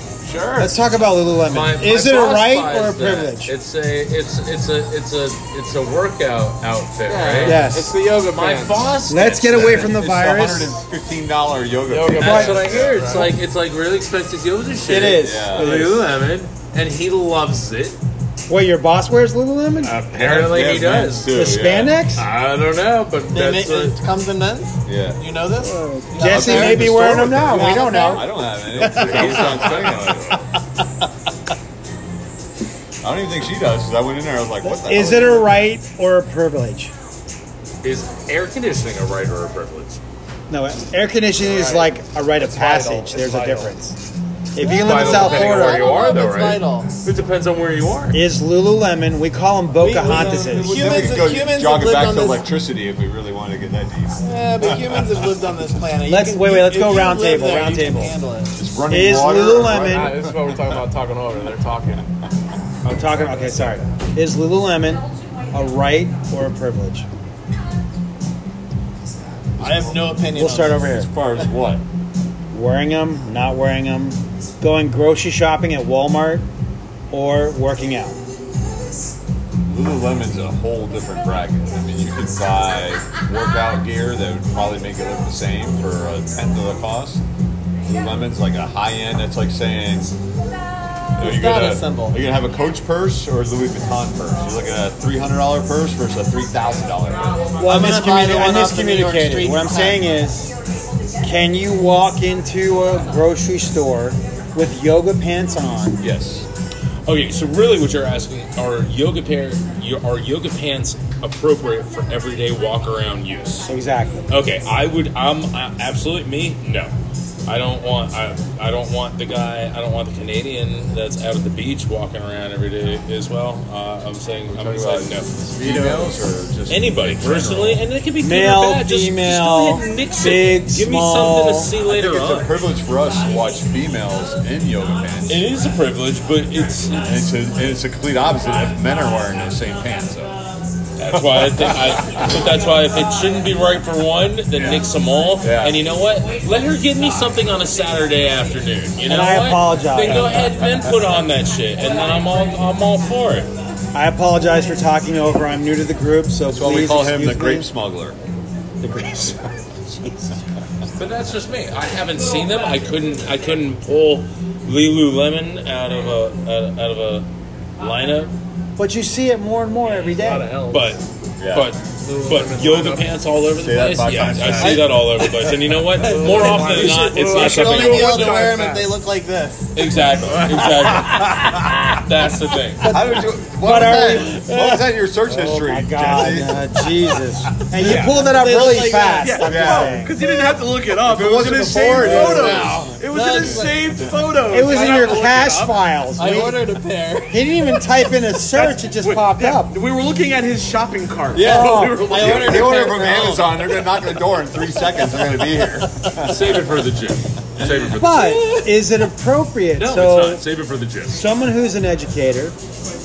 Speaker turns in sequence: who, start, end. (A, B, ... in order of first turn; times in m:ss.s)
0:00.2-0:00.8 A
0:00.6-0:03.5 B
0:01.5-0:07.7 C
0:07.1-0:09.0 A
0:07.4-0:07.9 B
0:08.2-0:09.9 C
0:09.1-0:10.8 B
0:09.5-0:13.2 D
0:11.9-0:13.3 A
0:12.1-0:18.0 C
0:12.2-0:12.6 B
0:14.8-0:16.1 B
0:15.1-0:15.7 D
0:18.5-0:20.0 B
0:19.8-0:21.4 C
0:20.1-0:21.9 D
0:21.3-0:22.2 B
0:22.1-0:24.0 C
0:23.3-0:29.8 E
0:24.9-0:25.2 D
0:25.6-0:28.3 B
0:26.2-0:30.4 D
0:28.8-0:30.4 C
0:33.0-0:35.5 D
0:34.6-0:36.9 B
0:37.8-0:40.0 C
0:40.5-0:43.9 B
0:41.4-0:43.8 A
0:44.6-0:45.9 B
0:44.6-0:48.2 C
0:44.8-0:46.9 E
0:48.1-0:50.8 B
0:49.8-0:52.4 E
0:50.1-0:55.0 D
0:54.2-0:58.5 E
0:56.1-0:58.1 B
0:58.6-1:00.4 D
0:58.9-1:00.1 B
0:59.8-1:02.0 A
1:02.8-1:07.1 B
1:09.6-1:10.1 D
1:09.6-1:10.8 E
1:10.4-1:11.1 B
1:10.9-1:11.8 D
1:12.5-1:16.4 B
1:17.1-1:18.2 B
1:19.7-1:27.2 D
1:27.8-1:30.1 D
1:31.2-1:37.5 D
1:31.2-1:32.2 E
1:37.6-1:40.5 B
1:37.6-1:40.0 E
1:41.2-1:46.0 B
1:46.0-1:46.4 D
1:47.1-1:53.7 C
1:53.7-1:54.2 B
1:54.3-1:56.9 C
1:57.5-2:06.2 C
2:04.5-2:07.8 D
2:06.7-2:12.5 C
2:08.2-2:11.7 B
2:11.8-2:15.4 D
2:15.3-2:17.1 C
2:17.0-2:20.3 D
2:21.0-2:33.5 C
2:21.1-2:22.3 D
2:25.4-2:25.8 D
2:29.0-2:30.5 B
2:33.9-2:37.7 B
2:36.5-2:38.2 D
2:38.8-2:40.3 B
2:41.0-2:47.3 C
2:47.8-2:48.3 C
2:48.8-2:50.5 B
2:49.9-2:51.0 A
2:50.7-2:51.0 C
2:51.4-2:51.7 D
2:51.5-2:58.4 C
2:52.0-2:53.1 A
2:53.6-2:55.3 D
2:54.5-2:54.8 A
2:56.0-2:58.9 A
2:56.4-2:59.7 E
2:59.8-3:02.8 C
3:00.2-3:01.0 A
3:02.8-3:04.6 B
3:02.8-3:06.6 D
3:05.5-3:10.2 B
3:07.8-3:08.2 A
3:07.8-3:09.6 E
3:09.2-3:15.8 A
3:09.4-3:10.0 D
3:11.0-3:14.2 D
3:11.8-3:13.8 E
3:14.5-3:16.6 B
3:16.2-3:17.4 E
3:17.3-3:19.8 B
3:18.5-3:22.7 A
3:21.4-3:22.1 B
3:21.4-3:23.8 E
3:21.5-3:26.7 D
3:26.2-3:28.7 C
3:27.6-3:27.9 D
3:27.9-3:30.4 B
3:29.8-3:31.2 C
3:31.1-3:32.6 B